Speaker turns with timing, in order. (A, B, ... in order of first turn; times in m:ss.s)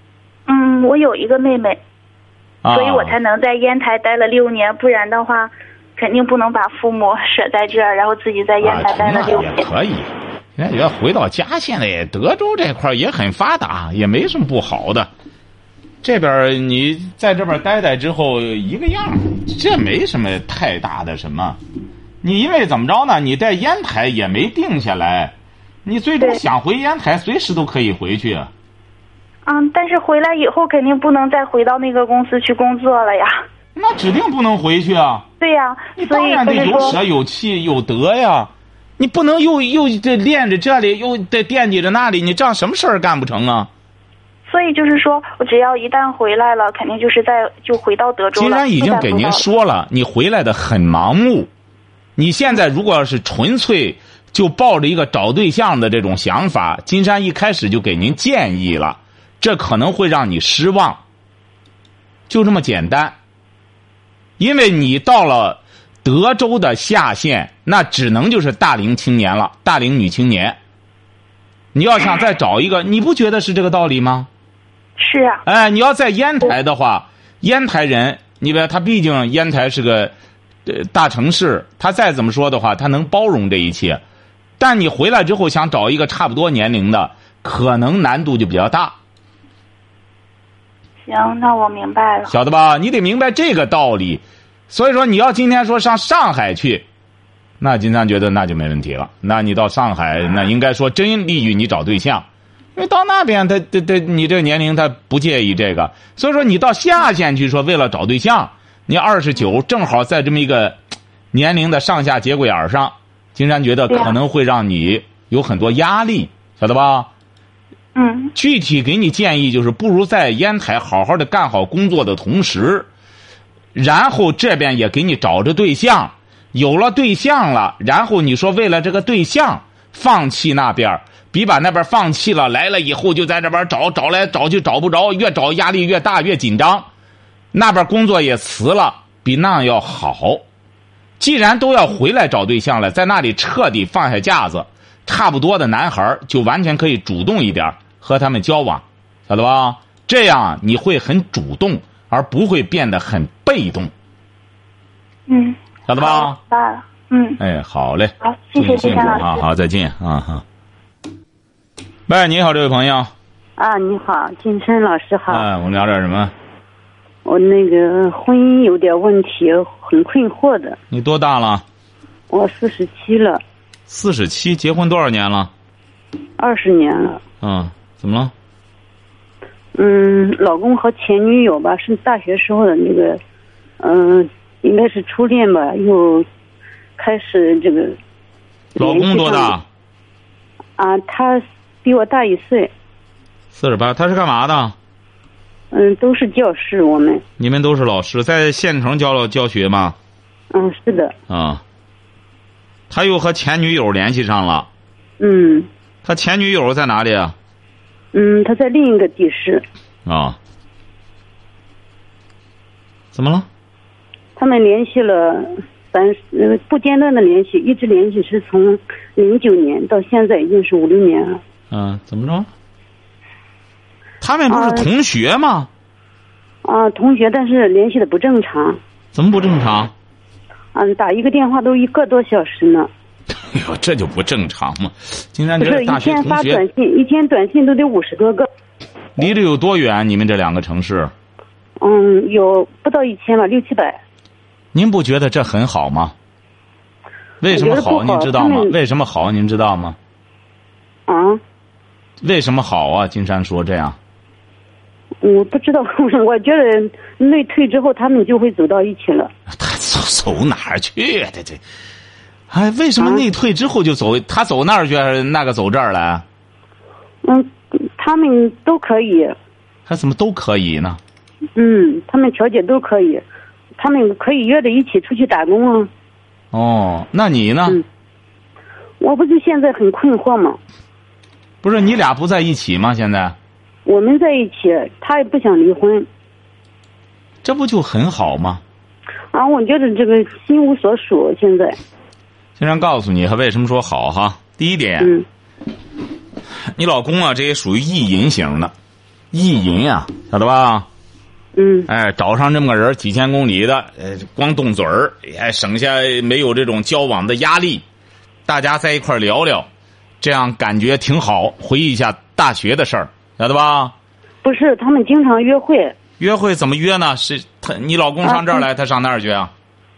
0:00.5-0:01.8 A
0:02.6-0:03.1 B
0:02.7-0:09.7 A
0:08.6-0:15.1 B
0:16.0-0:21.6 B
0:22.2-0:25.3 B
0:25.8-0:28.5 B
0:29.5-0:33.4 A
0:33.8-0:35.3 B
0:35.4-0:37.0 A
0:36.0-0:43.7 B
0:44.5-0:49.4 A
0:48.4-0:51.5 B
0:52.2-1:01.0 B
1:02.3-1:03.2 B
1:04.4-1:10.6 B
1:11.7-1:14.3 B
1:15.0-1:15.4 A
1:15.5-1:20.1 B
1:20.7-1:24.0 B
1:24.6-1:29.0 B
1:31.1-1:32.3 A
1:32.3-1:36.9 B
1:37.6-1:50.8 B
1:51.3-1:57.1 B
1:58.0-1:58.3 A
1:58.4-2:02.9 B
2:03.8-2:16.9 B
2:17.5-2:20.4 B
2:21.2-2:33.9 B
2:35.3-2:37.4 A
2:35.9-2:36.4 B
2:37.4-2:40.4 B
2:38.2-2:39.4 A
2:42.1-2:43.1 B
2:43.6-2:45.5 C
2:45.3-2:46.3 B
2:47.2-2:50.8 C
2:50.9-2:51.6 B
2:52.3-2:53.4 C
2:53.9-2:55.5 B
2:56.4-2:57.2 C
2:57.4-2:58.3 B
2:59.8-3:03.2 C
3:03.8-3:06.3 C
3:07.0-3:08.0 C
3:08.8-3:09.6 C
3:08.8-3:09.6 B
3:10.8-3:12.7 C
3:13.5-3:14.8 B
3:15.7-3:17.2 C
3:17.4-3:20.0 B
3:20.5-3:21.1 C
3:21.3-3:21.6 B
3:22.9-3:24.7 B
3:25.2-3:25.7 C
3:26.0-3:27.4 B
3:28.1-3:29.6 C
3:30.1-3:30.4 B
3:33.1-3:33.5 B
3:34.4-3:41.4 C
3:41.7-3:42.5 B
3:44.2-3:45.7 B
3:44.5-3:44.9 C
3:46.6-3:48.8 C
3:49.1-3:49.9 B
3:50.7-3:52.9 C
3:53.3-3:56.6 B
3:55.6-3:58.5 C
3:59.2-4:01.1 B
4:01.8-4:04.0 C
4:04.7-4:06.2 B
4:07.4-4:10.0 B
4:07.5-4:08.7 C
4:11.1-4:11.4 C
4:12.2-4:14.0 B
4:15.2-4:19.3 C
4:19.5-4:21.6 B
4:22.5-4:26.2 B
4:27.2-4:29.4 C
4:29.9-4:31.0 B
4:31.6-4:33.2 C
4:33.8-4:35.9 C
4:36.5-4:37.8 B
4:39.0-4:40.6 C
4:41.6-4:43.4 B
4:43.9-4:46.1 C
4:47.4-4:48.6 B
4:49.3-4:51.8 C
4:52.6-4:55.1 B
4:56.6-4:58.7 B
4:59.3-5:00.9 B
5:01.6-5:01.9 C
5:01.9-5:07.8 B
5:08.5-5:09.7 B
5:10.2-5:13.9 B
5:14.4-5:16.0 C
5:16.2-5:19.5 B
5:18.2-5:18.6 C